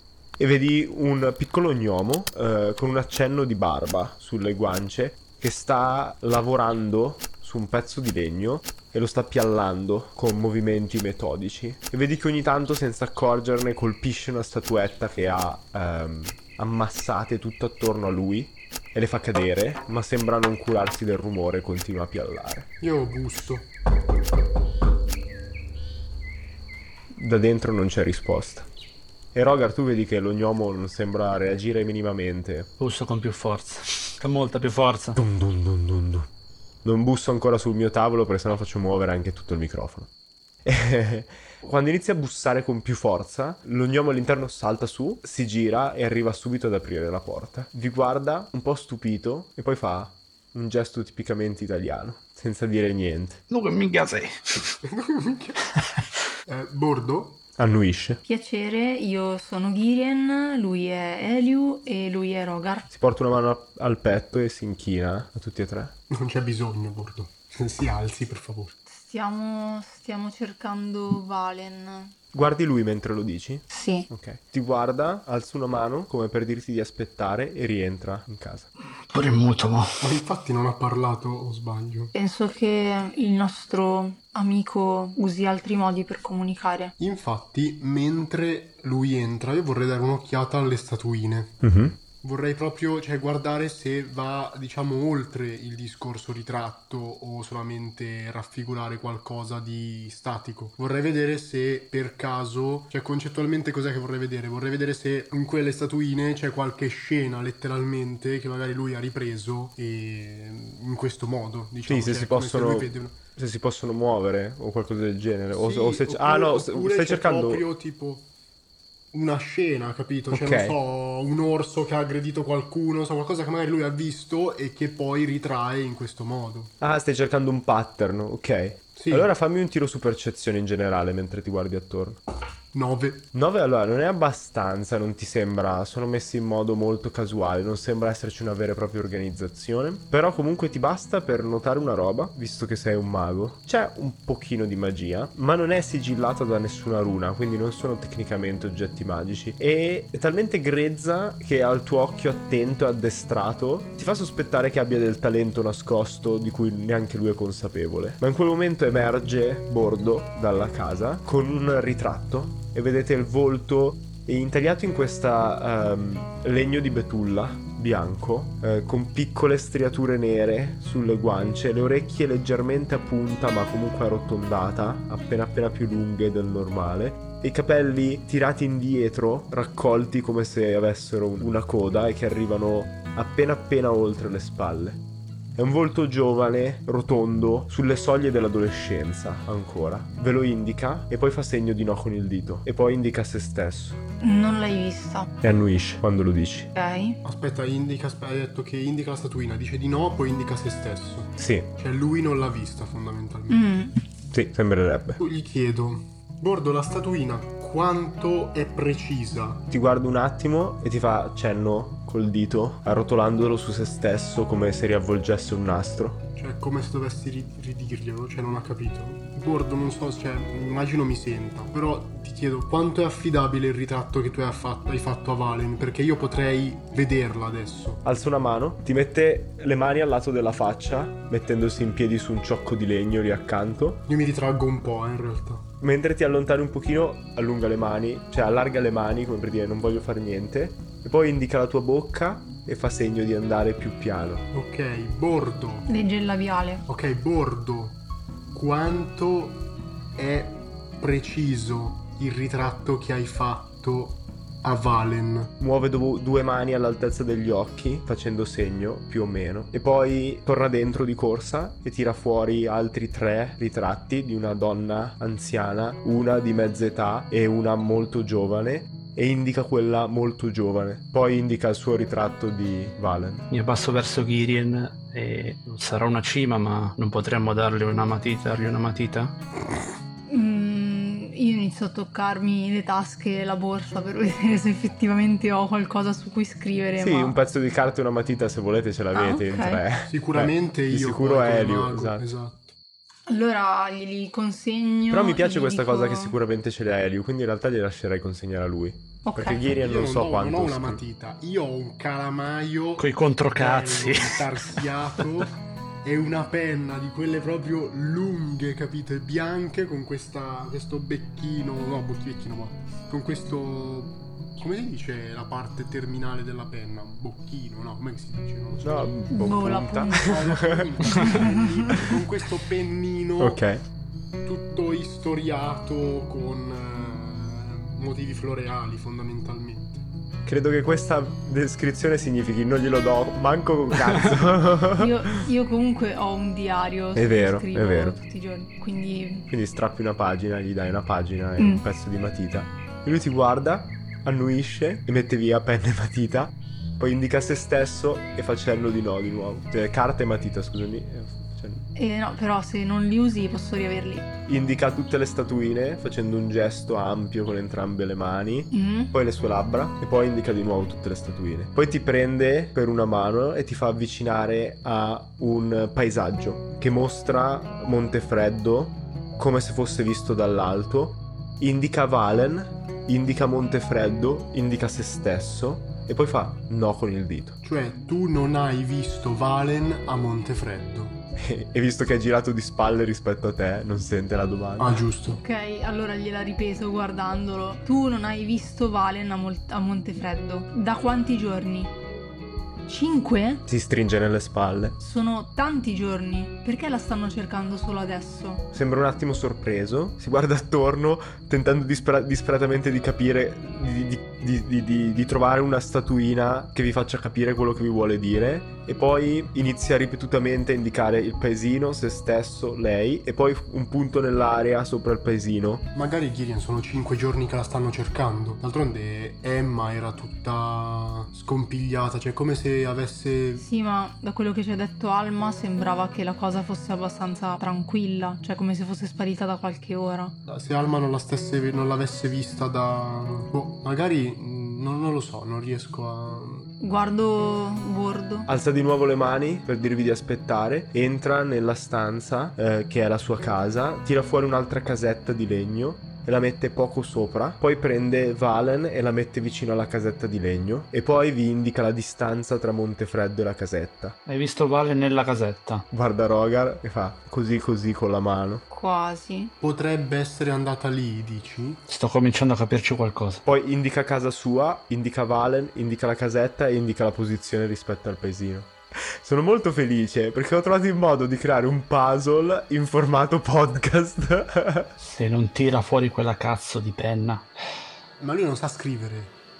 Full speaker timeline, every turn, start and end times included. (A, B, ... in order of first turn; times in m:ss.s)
0:00.4-0:22.7 A
0:22.8-0:23.7 B
0:27.1-0:28.7 A
0:29.3-0:32.7 A
0:32.8-0:35.2 C
0:35.1-0:36.3 A
0:36.8-0:40.1 A
0:40.6-0:53.4 A
0:53.5-0:54.8 C
0:54.8-0:55.7 B
0:56.5-0:57.4 B
0:57.6-0:58.2 A
0:58.2-1:02.9 D
1:02.9-1:05.9 A
1:06.1-1:08.8 B
1:08.9-1:12.1 D
1:12.3-1:18.7 A
1:13.7-1:14.1 D
1:19.1-1:20.0 C
1:20.0-1:22.1 B
1:22.1-1:26.9 D
1:27.0-1:31.6 B
1:31.6-1:32.0 A
1:32.2-1:53.2 B
1:51.9-1:57.6 A
1:55.5-1:58.3 B
1:59.1-2:06.7 B
2:00.3-2:00.8 A
2:06.8-2:12.2 A
2:09.0-2:09.3 B
2:12.7-2:13.3 B
2:13.3-3:05.0 A
3:05.6-3:14.0 A
3:14.2-3:15.3 D
3:15.4-3:16.7 A
3:16.7-3:17.2 D
3:17.2-3:23.7 B
3:21.4-3:21.7 A
3:23.5-3:23.9 D
3:24.3-3:25.2 A
3:25.2-3:29.6 B
3:29.7-3:36.2 A
3:36.4-3:48.0 B
3:48.0-3:54.0 A
3:54.1-3:55.7 B
3:55.8-4:04.5 A
4:04.5-4:05.9 B
4:05.9-4:06.8 D
4:06.9-4:08.0 B
4:08.5-4:09.6 B
4:10.2-4:15.5 B
4:15.6-4:33.5 A
4:33.5-4:39.4 C
4:40.3-4:47.4 D
4:47.0-4:52.3 A
4:49.1-4:49.8 D
4:50.1-4:52.7 B
4:53.3-4:56.3 D
4:55.1-5:01.0 A
4:59.2-4:59.6 D
4:59.7-5:19.2 B
5:03.0-5:04.9 C
5:18.8-5:21.1 A
5:19.3-5:20.3 D
5:20.2-5:23.6 B
5:21.2-5:22.0 D
5:23.4-5:23.8 A
5:24.4-5:30.0 B
5:30.4-5:35.1 A
5:35.0-5:39.5 D
5:37.1-5:38.2 A
5:39.5-5:51.8 A
5:51.9-5:54.3 D
5:54.5-6:17.6 A
5:58.7-5:59.1 D
6:17.6-6:21.2 B
6:21.4-6:25.0 A
6:24.8-6:25.4 B
6:25.4-6:31.9 D
6:32.8-6:33.6 D
6:33.7-6:35.0 A
6:35.0-6:38.6 D
6:38.7-6:55.8 A
6:55.9-7:03.6 B
7:03.6-7:10.3 D
7:10.4-7:16.7 B
7:16.8-7:18.5 D
7:18.5-7:34.2 A
7:34.3-7:35.8 C
7:35.9-7:38.6 A
7:38.7-7:39.5 D
7:39.6-7:41.8 B
7:41.9-7:43.4 C
7:43.4-7:54.9 A
7:55.0-7:57.5 C
7:58.2-7:59.4 B